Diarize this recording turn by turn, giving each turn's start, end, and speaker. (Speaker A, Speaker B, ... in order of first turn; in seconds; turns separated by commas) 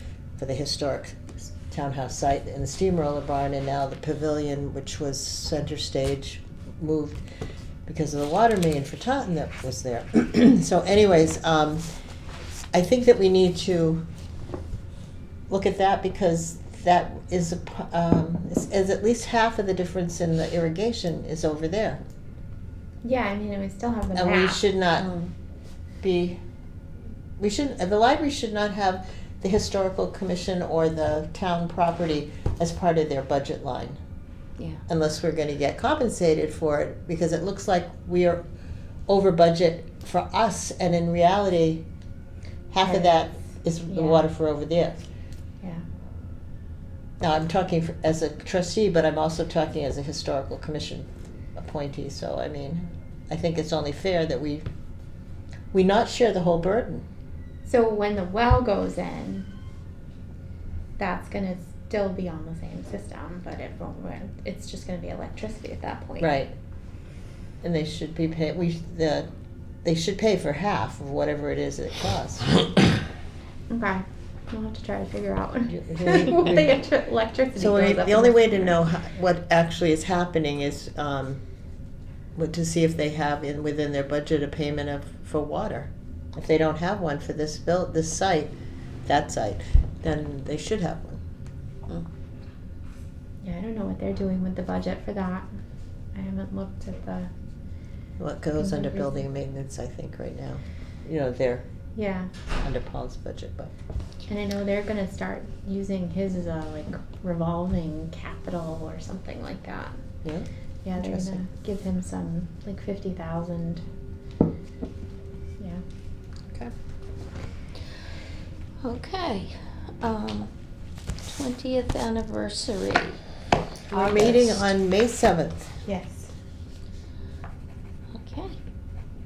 Speaker A: 0.4-7.2, Speaker A: 7.9-11.8, Speaker A: 12.7-14.0, Speaker A: 15.5-22.0, Speaker B: 23.0-24.6, Speaker A: 24.1-25.1, Speaker C: 25.0-25.3, Speaker A: 26.0-26.4, Speaker A: 27.4-34.0, Speaker A: 34.9-38.4, Speaker A: 39.1-41.9, Speaker A: 42.7-45.0, Speaker B: 42.8-43.2, Speaker B: 43.9-44.2, Speaker A: 47.2-54.7, Speaker A: 55.7-57.0, Speaker B: 57.6-59.5, Speaker B: 61.0-66.3, Speaker A: 66.2-66.5, Speaker A: 67.6-69.3, Speaker A: 69.8-72.5, Speaker B: 73.7-78.8, Speaker A: 75.7-76.8, Speaker A: 77.6-81.4, Speaker A: 82.3-88.5, Speaker A: 89.1-91.2, Speaker B: 93.4-95.5, Speaker B: 96.1-97.3, Speaker A: 98.2-101.6, Speaker B: 98.6-99.1, Speaker B: 102.0-102.3, Speaker A: 102.6-103.7, Speaker B: 104.3-110.0, Speaker A: 110.2-111.4, Speaker B: 110.8-113.8, Speaker C: 118.8-120.5, Speaker C: 121.2-123.2, Speaker C: 123.9-124.6, Speaker A: 123.9-125.7, Speaker B: 125.9-126.3, Speaker C: 128.2-128.6